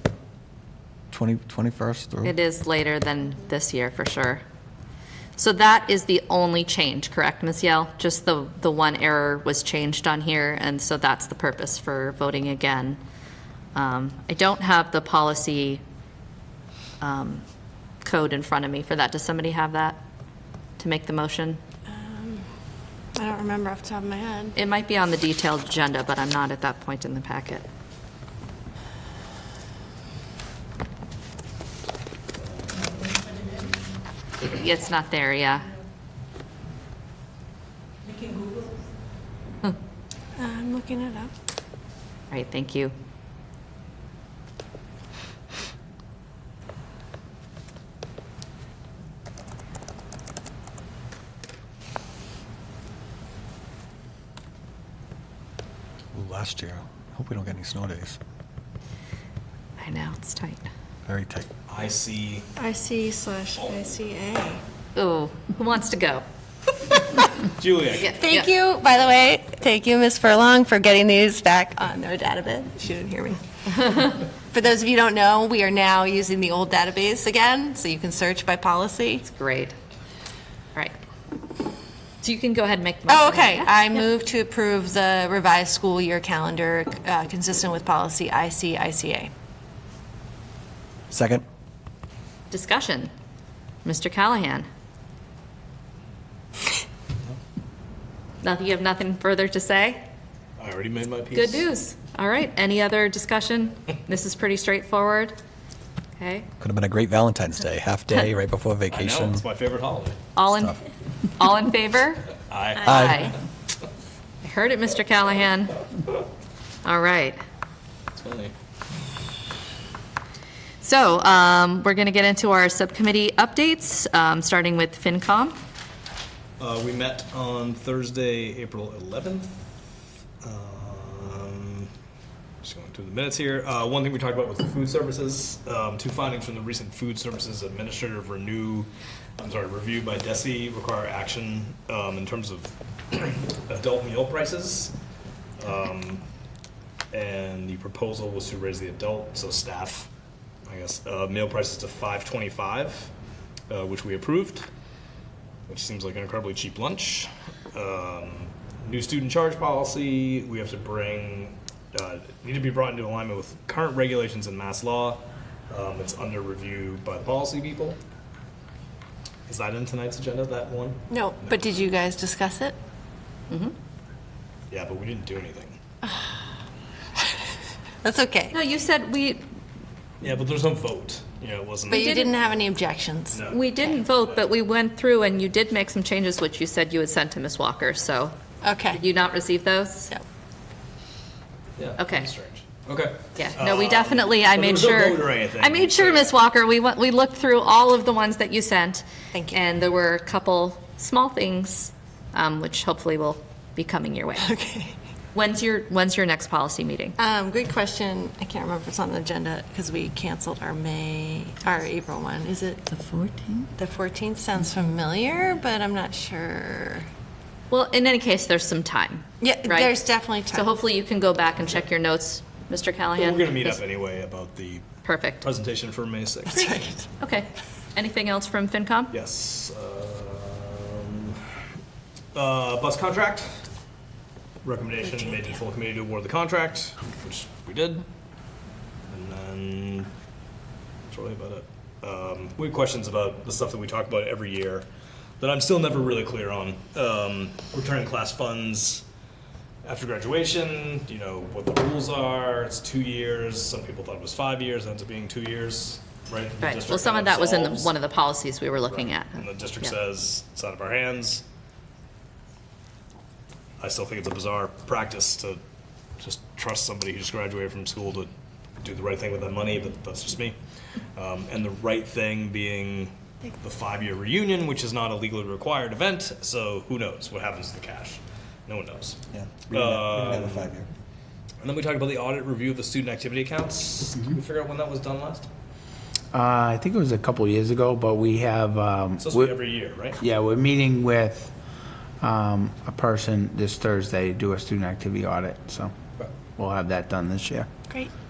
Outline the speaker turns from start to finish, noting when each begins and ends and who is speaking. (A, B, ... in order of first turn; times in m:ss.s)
0:01.1-0:02.3 A
0:02.2-0:04.4 B
0:05.4-0:13.0 B
0:13.7-0:15.8 B
0:17.0-0:17.4 B
0:18.0-0:20.0 B
0:20.8-0:21.6 B
0:21.9-0:22.4 C
0:23.1-0:24.6 C
0:24.6-0:27.6 B
0:32.4-0:33.7 D
0:34.4-0:35.7 B
0:40.4-0:41.3 C
0:42.3-0:42.9 B
0:56.1-0:58.2 A
0:59.8-1:00.6 B
1:01.0-1:01.5 A
1:01.7-1:02.5 D
1:02.6-1:04.6 C
1:05.0-1:06.2 B
1:07.6-1:08.2 D
1:07.9-1:08.5 B
1:08.2-1:19.2 C
1:19.2-1:19.7 B
1:22.2-1:23.8 B
1:23.1-1:29.3 C
1:31.1-1:31.4 A
1:32.5-1:33.1 B
1:33.8-1:34.6 B
1:38.4-1:40.0 B
1:40.6-1:41.7 D
1:41.3-1:45.3 B
1:46.2-1:46.5 B
1:46.6-1:49.4 A
1:48.9-1:50.2 D
1:50.3-1:50.7 B
1:50.5-1:50.8 A
1:51.4-1:53.4 B
1:52.5-1:53.4 D
1:52.8-1:53.3 A
1:54.4-1:55.8 B
1:56.8-1:57.4 B
1:58.1-1:58.5 D
2:00.8-2:05.6 B
2:06.6-2:09.6 D
2:10.4-2:11.9 D
2:12.6-2:24.9 D
2:25.6-2:26.2 D
2:27.1-2:30.1 D
2:30.6-2:33.1 D
2:33.7-2:34.7 D
2:35.7-2:48.0 D
2:49.5-2:51.6 D
2:51.1-2:52.8 C
2:54.7-2:55.8 D
2:56.0-2:56.4 C
2:58.0-2:58.6 C
2:58.5-2:59.4 B
3:00.2-3:02.0 D
3:01.9-3:03.9 C
3:01.9-3:02.3 B
3:03.3-3:04.5 D
3:03.4-3:08.3 B
3:08.6-3:09.0 C
3:08.9-3:10.1 B
3:11.8-3:16.3 D
3:12.0-3:12.3 B
3:13.4-3:24.5 B
3:19.3-3:19.6 C
3:24.4-3:24.9 C
3:25.3-3:27.2 B
3:27.2-3:37.1 C
3:37.7-3:39.9 B
3:39.4-3:40.8 C
3:40.5-3:43.8 B
3:43.1-3:46.8 D
3:45.0-3:45.4 B
3:46.5-3:47.1 C
3:47.2-3:49.1 B
3:49.1-3:51.5 D
3:52.3-3:53.6 D
3:54.6-3:58.0 D
3:59.1-4:00.1 D
4:01.1-4:04.8 D
4:05.4-4:09.0 D
4:09.8-4:17.9 D
4:16.6-4:19.9 B
4:18.9-4:21.4 D
4:23.8-4:25.6 D
4:26.2-4:28.3 D
4:28.8-4:30.6 D
4:31.1-4:40.7 D
4:39.3-4:40.9 A
4:41.6-4:45.5 D
4:46.3-4:49.5 E
4:49.2-4:50.2 D
4:50.2-4:51.5 E
4:52.2-4:55.9 E
4:56.6-4:57.7 E